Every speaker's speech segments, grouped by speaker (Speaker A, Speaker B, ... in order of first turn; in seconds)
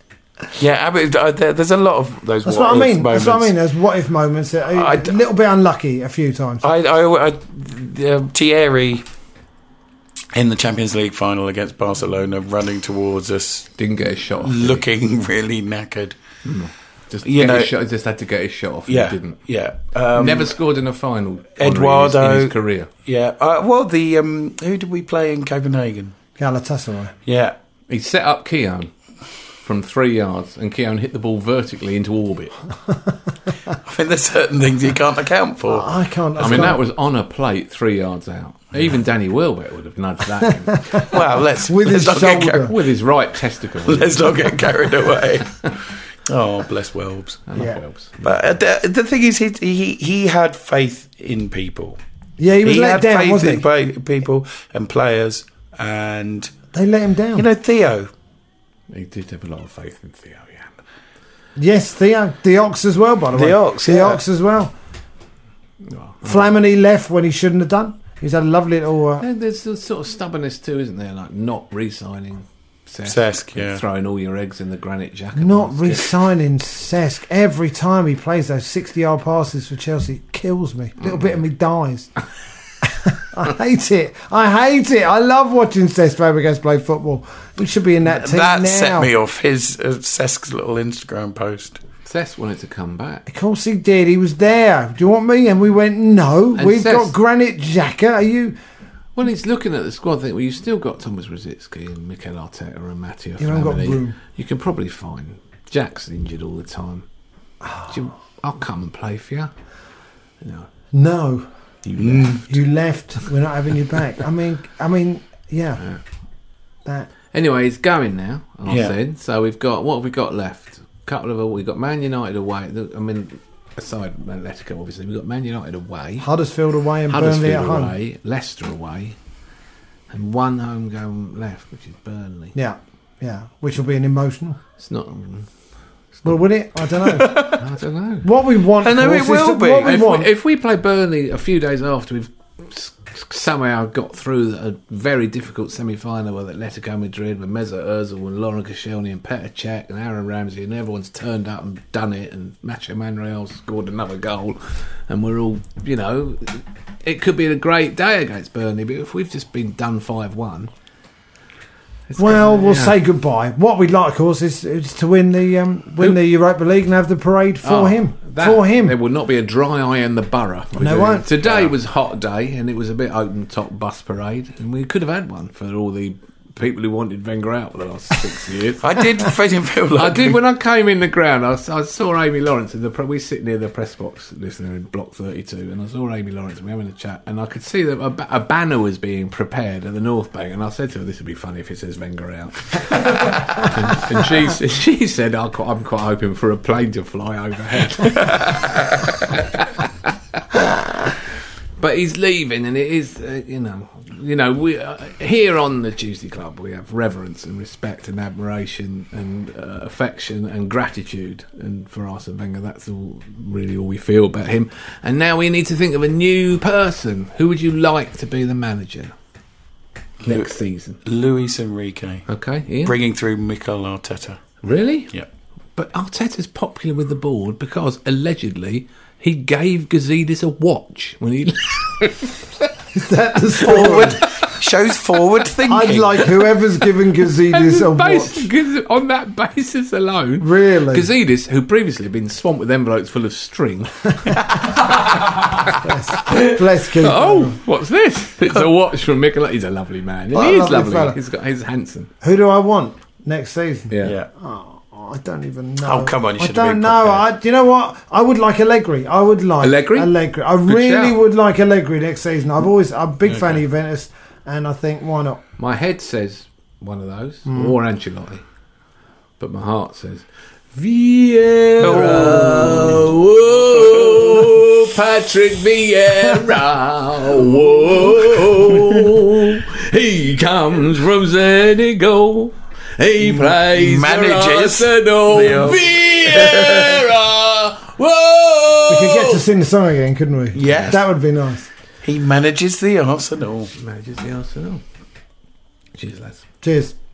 Speaker A: 0.6-3.5, 4.7-5.1, 6.6-9.0, 10.3-13.7, 14.4-16.2, 17.2-17.7, 18.9-20.6, 21.6-22.5, 23.1-26.2, 27.3-27.6, 33.8-35.9, 36.4-36.7, 41.0-42.7, 43.9-45.7, 46.3-47.5, 48.2-52.0, 52.6-56.5, 57.4-58.1, 63.4-64.2, 73.1-73.8, 88.1-91.8, 112.0-112.4, 118.7-118.9, 137.1-137.6, 138.8-139.9, 178.8-180.4, 198.2-199.0, 220.2-220.5, 221.1-222.2, 222.8-224.4, 233.6-236.4, 254.0-254.3, 255.8-257.2, 263.3-263.6, 271.8-273.1, 273.8-274.4, 283.2-287.0, 290.5-291.0, 292.0-293.7
Speaker B: 2.4-6.7, 26.4-27.2, 35.6-36.8, 41.7-42.7, 52.4-53.7, 56.7-57.5, 61.6-64.7, 66.2-69.2, 75.4-82.1, 82.8-89.1, 93.3-98.6, 103.4-104.2, 107.6-107.9, 110.9-111.5, 112.5-115.8, 126.2-127.9, 132.6-134.6, 136.2-137.6, 138.2-140.3, 162.2-169.0, 170.8-171.4, 232.9-234.2, 235.7-238.5, 240.4-241.1, 245.8-247.6, 250.3-251.2, 252.2-265.4, 267.5-267.8, 288.9-291.7, 296.6-296.9
Speaker C: 13.8-14.8, 16.4-19.4, 20.1-22.9, 27.9-28.9, 29.6-32.6, 36.4-41.2, 42.6-44.4, 47.5-48.4, 58.9-60.8, 65.9-66.5, 69.2-76.1, 92.0-93.2, 96.5-97.1, 99.2-107.1, 107.9-109.5, 110.4-110.7, 111.8-112.5, 117.3-126.3, 127.1-129.2, 130.1-132.6, 134.8-135.5, 137.5-138.5, 139.2-160.7, 162.1-163.0, 167.6-178.8, 180.0-199.9, 201.8-219.1, 220.2-221.0, 222.3-223.0, 224.6-225.1, 225.8-232.7, 237.4-252.1, 253.9-254.2, 259.6-260.1, 260.7-261.2, 265.6-268.4, 269.4-289.5, 290.6-291.0, 293.8-294.8, 295.9-296.4